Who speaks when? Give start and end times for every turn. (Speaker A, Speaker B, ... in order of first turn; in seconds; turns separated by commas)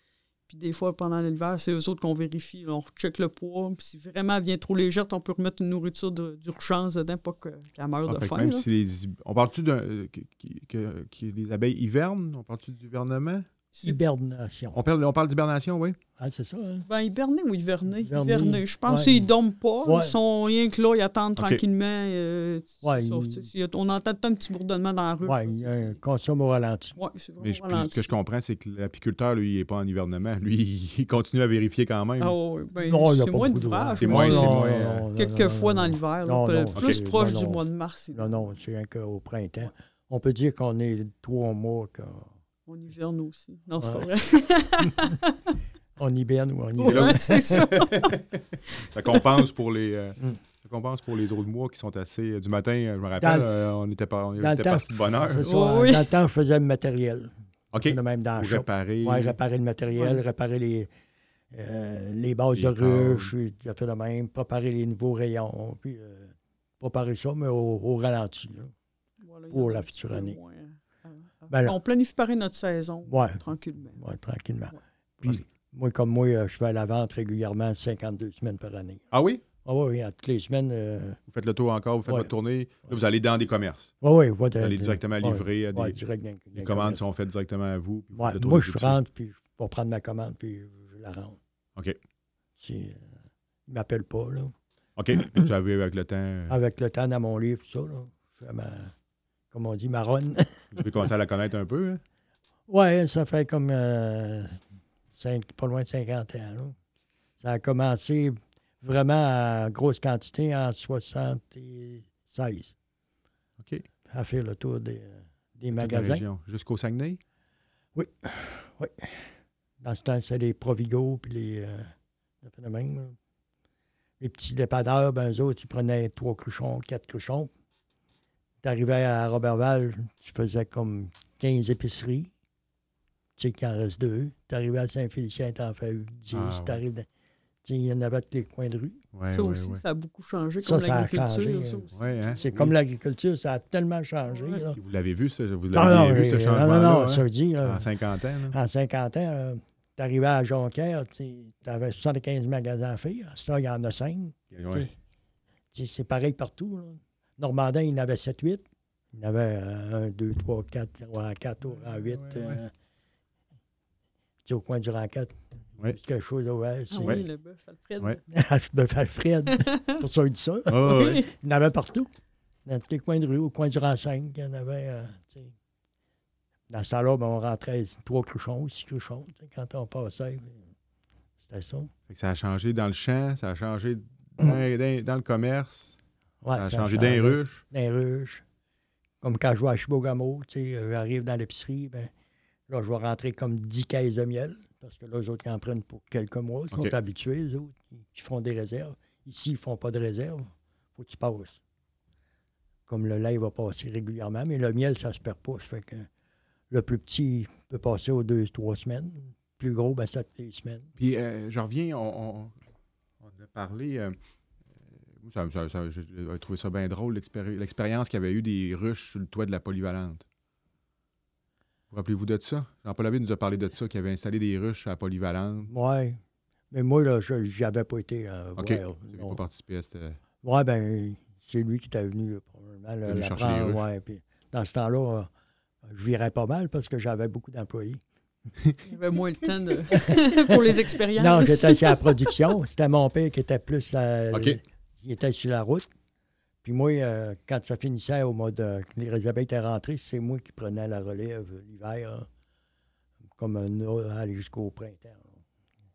Speaker A: 0.5-8.7, Speaker B: 8.1-13.5, Speaker C: 13.8-14.8, Speaker B: 14.7-16.0, Speaker C: 16.2-16.9, Speaker A: 16.9-26.0, Speaker C: 17.9-19.3, Speaker C: 19.8-20.1, Speaker C: 22.8-23.5, Speaker C: 25.2-27.0, Speaker A: 27.0-28.1, Speaker B: 27.4-32.4, Speaker A: 32.2-38.5, Speaker C: 32.8-37.6, Speaker B: 34.0-35.1, Speaker C: 38.1-42.3, Speaker A: 42.7-45.4, Speaker C: 43.8-44.1, Speaker C: 46.0-47.6, Speaker A: 46.8-48.2, Speaker B: 46.9-55.5, Speaker A: 49.1-49.4, Speaker C: 53.2-53.5, Speaker C: 54.4-57.3, Speaker A: 55.4-56.1, Speaker B: 57.7-59.4, Speaker C: 57.8-60.9, Speaker C: 61.5-68.7, Speaker B: 62.5-63.3, Speaker A: 69.2-74.0, Speaker C: 69.5-70.4, Speaker C: 71.5-71.8, Speaker C: 73.1-73.4, Speaker C: 74.0-79.0, Speaker B: 79.1-79.4, Speaker C: 79.6-81.2, Speaker B: 81.3-83.9, Speaker C: 84.0-87.0, Speaker B: 84.6-86.0, Speaker B: 86.5-89.0, Speaker C: 88.1-91.4, Speaker C: 92.6-93.1, Speaker C: 93.7-94.5, Speaker B: 95.0-96.6, Speaker C: 96.5-98.9, Speaker C: 99.5-100.9, Speaker B: 100.7-102.0, Speaker C: 102.7-104.6, Speaker C: 105.2-106.8, Speaker C: 107.4-112.7, Speaker B: 113.6-113.8, Speaker C: 114.1-116.2, Speaker B: 115.8-117.2, Speaker C: 118.0-119.2, Speaker C: 119.8-121.9, Speaker C: 122.4-123.2, Speaker C: 124.2-127.5, Speaker C: 128.6-132.3, Speaker C: 133.4-137.1, Speaker B: 136.3-136.8, Speaker C: 137.6-139.0, Speaker B: 139.1-139.8, Speaker A: 139.3-142.4, Speaker C: 140.6-144.8, Speaker B: 141.9-142.7, Speaker B: 144.7-148.6, Speaker C: 145.7-147.9, Speaker C: 148.5-154.9, Speaker B: 154.5-154.9, Speaker C: 155.7-158.6, Speaker C: 159.1-162.7, Speaker B: 161.7-162.6, Speaker C: 164.4-167.2, Speaker A: 166.9-168.2, Speaker C: 168.3-172.1, Speaker A: 169.5-170.0, Speaker B: 170.7-171.2, Speaker A: 170.8-171.3, Speaker C: 172.7-175.5, Speaker C: 176.7-180.7, Speaker C: 181.4-181.9, Speaker B: 182.1-186.0, Speaker C: 186.4-188.4, Speaker B: 186.6-187.6, Speaker C: 189.2-192.1, Speaker C: 192.7-201.6, Speaker C: 202.9-206.1, Speaker C: 206.7-210.9, Speaker B: 211.0-212.5, Speaker B: 213.2-214.2, Speaker B: 215.2-220.2, Speaker B: 221.9-225.7, Speaker C: 225.7-226.2, Speaker C: 226.7-229.4, Speaker B: 228.6-230.2, Speaker C: 230.4-235.3, Speaker B: 233.1-233.8, Speaker C: 235.8-238.0, Speaker A: 238.9-242.3, Speaker C: 239.9-240.5, Speaker C: 241.2-245.9, Speaker B: 244.3-244.6, Speaker C: 246.6-252.3, Speaker C: 253.4-255.4